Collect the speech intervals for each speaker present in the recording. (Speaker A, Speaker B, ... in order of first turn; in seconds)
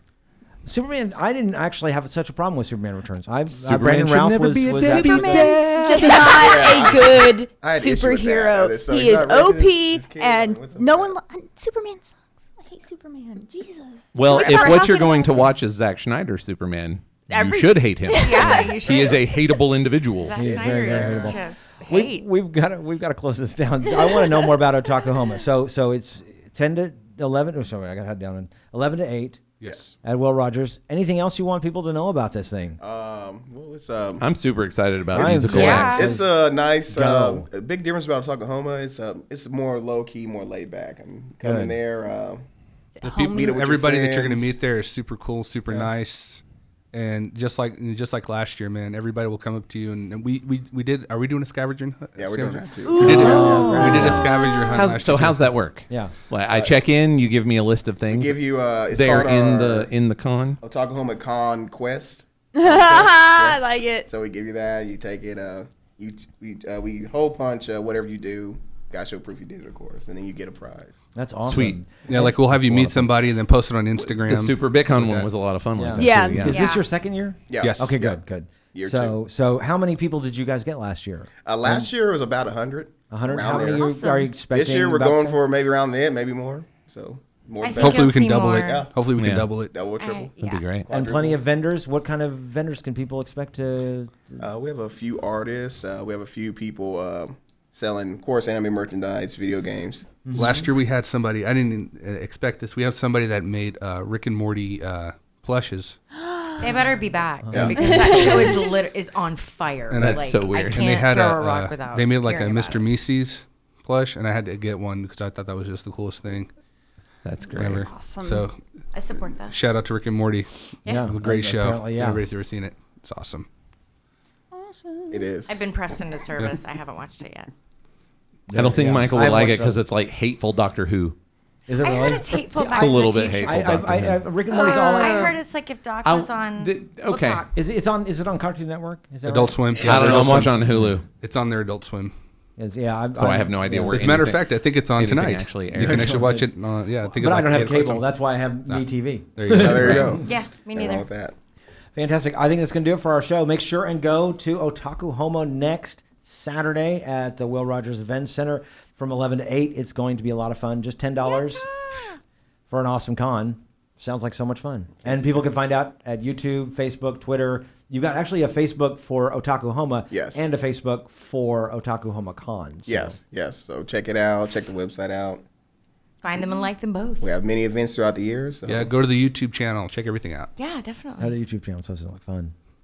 Speaker A: 0.6-5.6, 18.4-18.7, 20.4-29.5, 30.0-32.8, 35.1-36.3, 36.9-37.5, 41.4-41.8, 71.1-73.1, 75.8-81.9, 83.1-85.4, 90.9-94.4, 100.2-100.7, 107.5-107.9, 120.9-122.2, 128.5-129.8, 131.7-135.4, 137.5-140.9, 142.6-144.2, 145.8-146.5, 147.1-150.3, 151.9-161.8, 162.7-173.2, 181.2-182.5
Speaker B: 3.5-6.8, 14.1-20.4, 34.2-36.1, 53.0-60.6, 71.4-71.8, 74.0-76.6, 89.1-89.5, 90.4-90.9, 110.0-111.0, 117.2-117.9, 128.5-131.2, 132.7-135.4, 136.0-137.4, 139.8-141.1, 143.2-146.2
Speaker C: 4.7-15.3, 17.3-18.6, 43.0-43.6, 52.8-54.0, 62.5-64.1, 75.9-76.8, 83.6-84.3, 106.3-106.6, 107.8-108.6, 117.6-118.5, 124.5-125.3
Speaker D: 6.4-11.1, 20.4-21.4, 29.6-29.9, 32.8-34.2, 35.1-42.4, 43.3-44.5, 52.2-54.2, 56.5-56.8, 58.1-59.9, 60.6-71.0, 77.5-78.2, 78.7-79.2, 81.5-84.0, 84.5-88.9, 89.7-90.3, 90.8-91.4, 94.4-100.5, 107.5-108.4, 125.1-125.6, 149.5-151.3, 165.1-165.4, 170.1-170.4, 172.9-175.4, 177.2-178.9
Speaker E: 14.3-15.0, 18.1-19.6, 20.2-22.2, 35.5-36.1, 76.5-76.8, 87.6-88.9, 89.9-90.8, 106.6-112.9, 118.9-119.6, 120.8-121.1, 125.5-127.5, 131.8-133.9, 134.6-137.5, 150.2-151.1, 161.3-162.2, 176.2-177.3, 180.6-181.3
Speaker F: 29.6-29.9, 43.0-46.4, 46.9-55.5, 72.1-75.3, 77.6-78.0, 87.8-89.8, 100.3-106.0, 109.9-116.5, 117.5-118.6, 119.4-123.5, 139.2-142.1, 143.9-148.1, 149.3-150.2, 178.7-180.5